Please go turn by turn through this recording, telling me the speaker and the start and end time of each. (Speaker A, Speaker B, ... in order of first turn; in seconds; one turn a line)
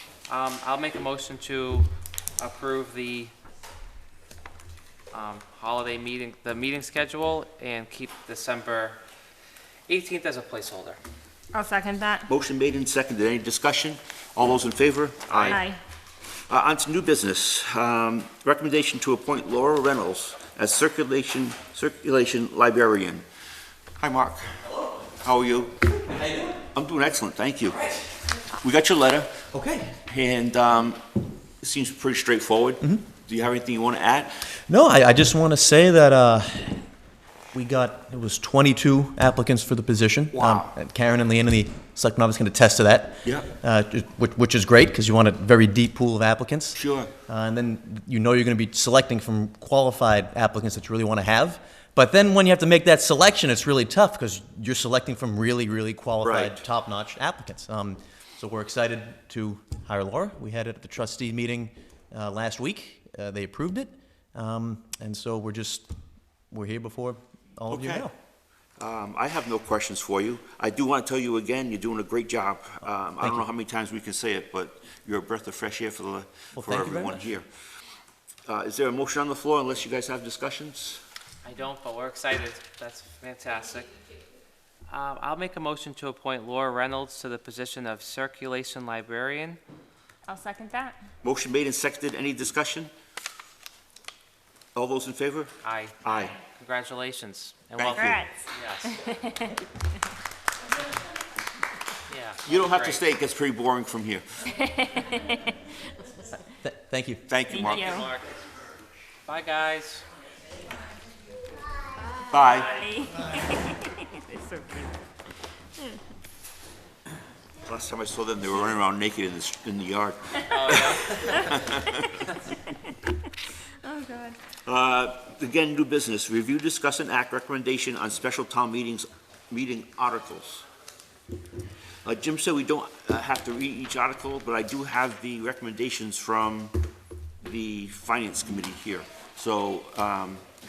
Speaker A: 0.3-3.3
Speaker A: 5.1-9.0
Speaker A: 9.9-11.0
Speaker B: 11.5-12.3
Speaker C: 12.3-15.6
Speaker A: 15.3-15.6
Speaker B: 15.4-15.8
Speaker C: 16.5-23.2
Speaker C: 24.0-24.6
Speaker D: 24.6-25.0
Speaker C: 25.2-25.8
Speaker D: 25.9-26.6
Speaker C: 26.7-27.8
Speaker D: 27.7-28.2
Speaker C: 28.5-29.3
Speaker D: 29.5-30.0
Speaker C: 30.0-31.0
Speaker C: 31.6-34.5
Speaker D: 34.7-36.9
Speaker D: 37.5-65.9
Speaker C: 40.3-40.7
Speaker C: 43.2-43.5
Speaker C: 46.8-47.1
Speaker C: 56.2-56.6
Speaker D: 66.5-68.1
Speaker C: 67.7-68.1
Speaker C: 68.8-77.5
Speaker D: 76.5-77.3
Speaker C: 78.5-81.0
Speaker A: 81.4-84.0
Speaker A: 84.9-89.6
Speaker B: 90.3-91.0
Speaker C: 91.2-92.9
Speaker C: 94.8-96.4
Speaker A: 95.6-98.9
Speaker C: 97.8-98.2
Speaker B: 98.0-100.0
Speaker A: 102.1-103.0
Speaker C: 102.5-104.5
Speaker B: 104.5-106.3
Speaker D: 106.6-107.2
Speaker C: 107.3-108.0
Speaker B: 107.5-108.1
Speaker A: 107.6-108.3
Speaker A: 109.3-110.0
Speaker B: 112.1-115.0
Speaker C: 112.3-112.7
Speaker C: 117.7-122.2
Speaker A: 120.5-121.6
Speaker B: 123.7-124.4
Speaker C: 124.6-130.7
Speaker C: 132.0-136.8
Speaker C: 137.4-140.4